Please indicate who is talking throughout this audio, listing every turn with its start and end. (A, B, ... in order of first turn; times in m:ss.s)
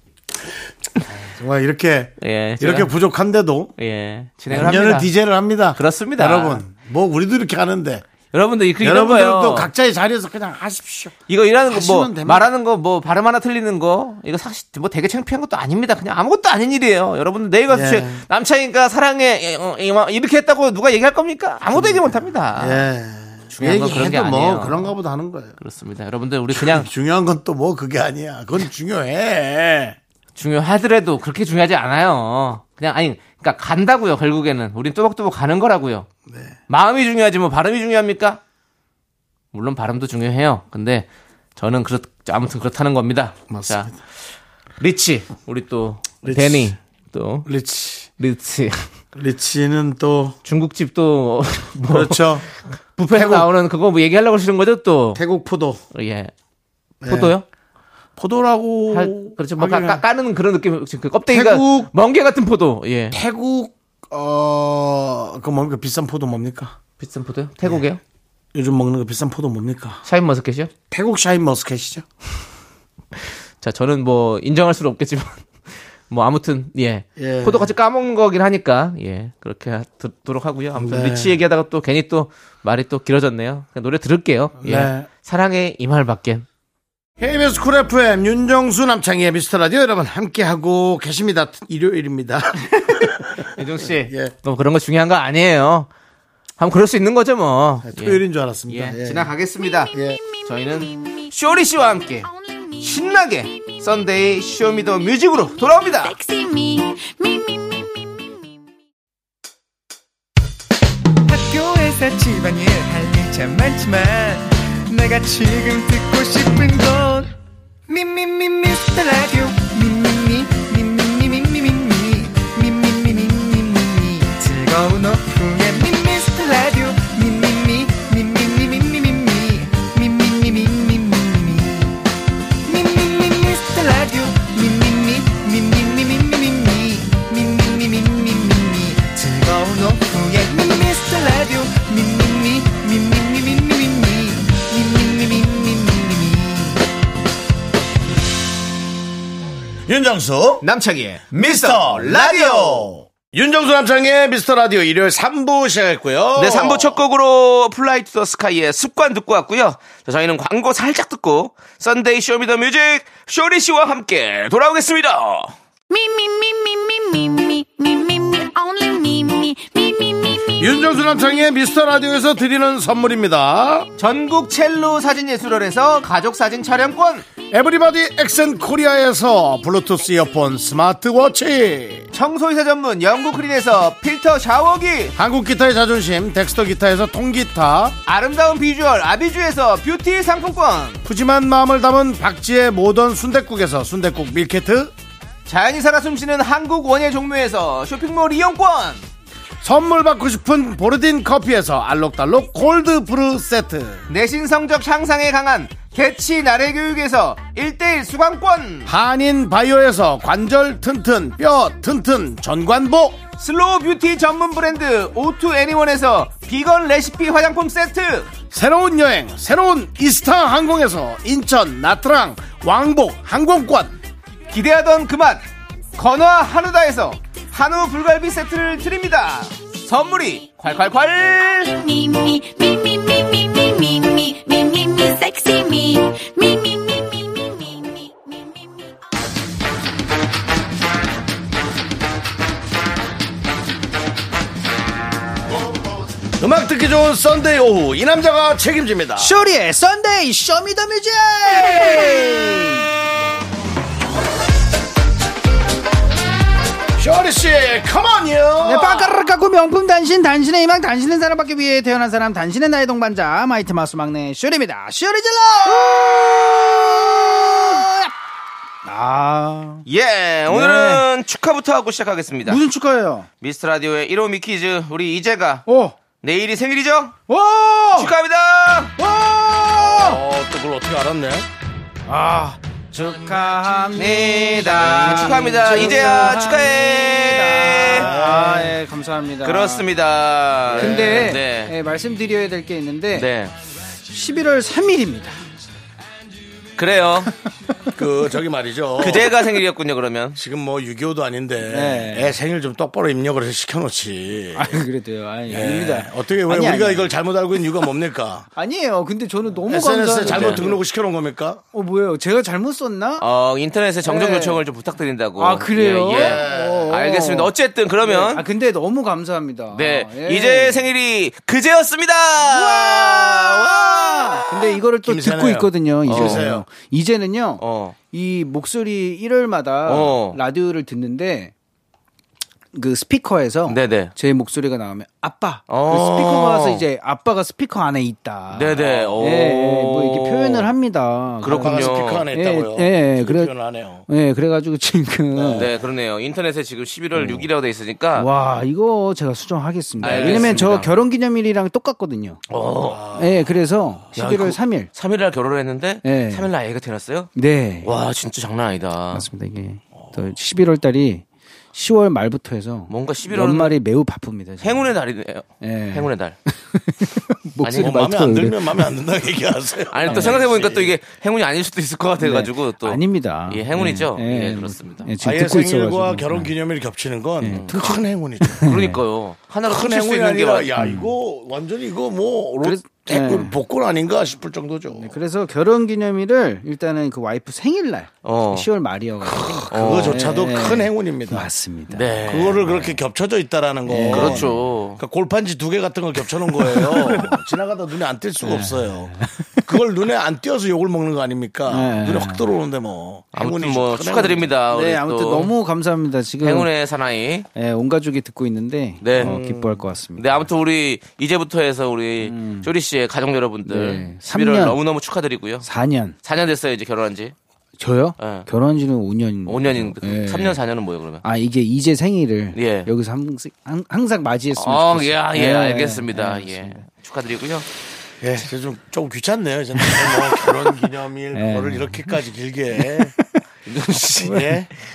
0:01.1-0:03.7 A
0:02.2-0:02.9 B
0:03.8-0:05.1 B
0:04.5-0:08.0 A
0:05.7-0:06.6 B
0:08.3-0:09.7 B
0:08.8-0:12.5 A
0:11.3-0:22.9 B
0:17.7-0:18.2 A
0:21.7-0:25.6 A
0:23.5-0:24.8 B
0:25.6-0:26.9 B
0:26.5-0:30.0 A
0:30.4-0:36.1 B
0:36.3-0:36.5 A
0:36.7-0:38.4 B
0:39.5-0:43.9 B
0:43.5-0:44.0 A
0:44.8-0:47.5 B
0:46.2-0:46.7 A
0:47.5-0:48.1 A
0:48.2-0:48.9 B
0:49.2-0:50.4 A
0:50.4-0:52.4 B
0:51.9-0:52.5 A
0:53.0-0:55.2 B
0:53.1-0:53.5 A
0:55.2-0:55.8 A
0:55.9-0:56.3 B
0:57.0-0:57.3 A
0:57.1-0:57.4 B
0:58.2-1:00.0 A
0:58.9-1:03.2 B
1:01.3-1:01.9 A
1:03.1-1:06.8 A
1:07.0-1:08.0 B
1:08.5-1:10.0 A
1:10.0-1:10.7 B
1:10.9-1:12.1 A
1:13.2-1:15.5 B
1:16.1-1:26.4 B
1:17.2-1:17.7 A
1:20.8-1:21.4 A
1:24.6-1:25.1 A
1:27.2-1:34.3 A
1:33.4-1:35.9 B
1:36.6-1:39.9 B
1:37.8-1:39.3 A
1:39.9-1:40.2 A
1:40.4-1:42.3 B
1:40.8-1:41.1 C
1:42.2-1:43.1 C
1:42.8-1:46.2 B
1:46.0-1:48.5 C
1:51.3-1:57.3 D
1:57.9-2:12.0 D
2:12.6-2:26.8 D
2:29.9-2:30.6 A
2:30.6-2:32.9 B
2:31.3-2:37.0 A
2:36.4-2:45.5 B
2:45.9-2:50.5 C
2:50.6-2:53.9 A
2:54.0-2:57.3 B
2:57.5-3:02.1 A
3:02.1-3:05.2 B
3:05.2-3:08.0 A
3:08.1-3:11.0 B
3:11.0-3:14.9 A
3:15.5-3:19.0 B
3:19.6-3:24.1 A
3:24.1-3:28.9 B
3:28.9-3:33.2 A
3:33.4-3:38.3 B
3:38.5-3:44.0 A
3:44.5-3:45.4 B
3:46.0-3:51.7 B
3:51.6-3:59.0 C
4:06.4-4:09.3 A
4:09.2-4:12.9 E
4:17.0-4:19.2 A
4:18.6-4:28.1 E
4:28.8-4:29.8 E
4:29.9-4:32.6 B
4:30.5-4:31.1 E
4:32.5-4:33.3 E
4:33.4-4:35.7 B
4:35.7-4:36.0 E
4:36.2-4:37.2 B
4:37.3-4:38.1 E
4:38.0-4:38.9 B
4:39.0-4:40.2 E
4:39.8-4:41.5 A
4:42.1-4:49.9 E
4:43.9-4:48.1 B
4:48.0-4:48.8 A
4:49.4-4:51.7 B
4:50.7-4:51.3 A
4:50.8-4:53.3 E
4:53.1-4:53.5 B
4:54.1-4:55.4 E
4:56.8-4:57.3 B
4:58.0-4:59.3 A
4:59.0-5:00.4 B
5:00.4-5:04.8 A
5:01.7-5:02.3 E
5:04.6-5:07.1 E
5:05.5-5:08.5 A
5:08.6-5:10.8 E
5:09.7-5:11.6 A
5:10.2-5:10.6 B
5:11.7-5:13.2 E
5:13.2-5:18.4 B
5:14.0-5:14.6 E
5:15.4-5:17.5 E
5:16.1-5:16.9 A
5:18.0-5:20.9 E
5:19.7-5:24.4 B
5:22.4-5:31.5 E
5:25.0-5:26.6 A
5:26.1-5:26.4 B
5:27.6-5:28.0 B
5:29.8-5:30.4 B
5:32.7-5:43.5 E
5:33.7-5:34.1 B
5:35.7-5:36.8 B
5:38.5-5:40.7 B
5:41.4-5:42.3 B
5:41.6-5:44.1 A
5:44.1-5:45.7 E
5:45.3-5:45.7 A
5:45.6-5:48.3 B
5:47.2-5:47.5 E
5:48.2-5:52.4 E
5:50.0-5:51.0 B
5:50.0-5:50.8 A
5:52.5-5:53.0 B
5:52.8-5:53.6 A
5:53.1-5:54.9 E
5:54.2-5:57.3 B
5:56.0-5:56.5 E
5:57.4-5:57.9 E
5:57.8-5:59.3 B
5:59.1-6:04.9 E
6:02.9-6:03.8 B
6:04.6-6:06.4 B
6:05.6-6:08.8 E
6:07.6-6:07.9 B
6:07.7-6:10.9 A
6:09.9-6:15.1 B
6:10.1-6:10.4 E
6:12.2-6:16.5 E
6:15.2-6:18.7 A
6:17.4-6:19.0 E
6:17.5-6:17.8 B
6:18.6-6:20.8 B
6:19.7-6:25.2 A
6:20.8-6:21.1 E
6:22.6-6:23.5 E
6:24.9-6:33.0 E
6:28.2-6:28.7 B
6:29.2-6:31.5 A
6:29.7-6:30.3 B
6:31.9-6:32.7 B
6:32.3-6:39.1 A
6:33.9-6:34.6 E
6:34.1-6:35.0 B
6:36.6-6:37.4 E
6:38.4-6:39.7 E
6:39.6-6:44.5 A
6:41.7-6:42.4 E
6:43.3-6:45.5 B
6:44.7-6:46.7 E
6:46.4-6:47.5 B
6:47.6-6:50.4 E
6:49.0-6:49.4 B
6:49.2-6:49.7 A
6:50.2-6:55.7 B
6:52.2-6:52.7 E
6:53.7-6:54.8 E
6:55.6-6:56.2 E
6:56.2-6:57.4 B
6:57.8-7:00.6 E
6:58.2-6:58.5 B
6:59.4-7:01.2 B
7:01.2-7:06.8 E
7:02.5-7:02.9 B
7:04.6-7:07.7 B
7:08.2-7:13.2 A
7:09.8-7:10.2 E
7:11.3-7:12.2 E
7:12.8-7:13.3 E
7:13.7-7:14.5 B
7:14.2-7:14.6 E
7:14.2-7:14.7 A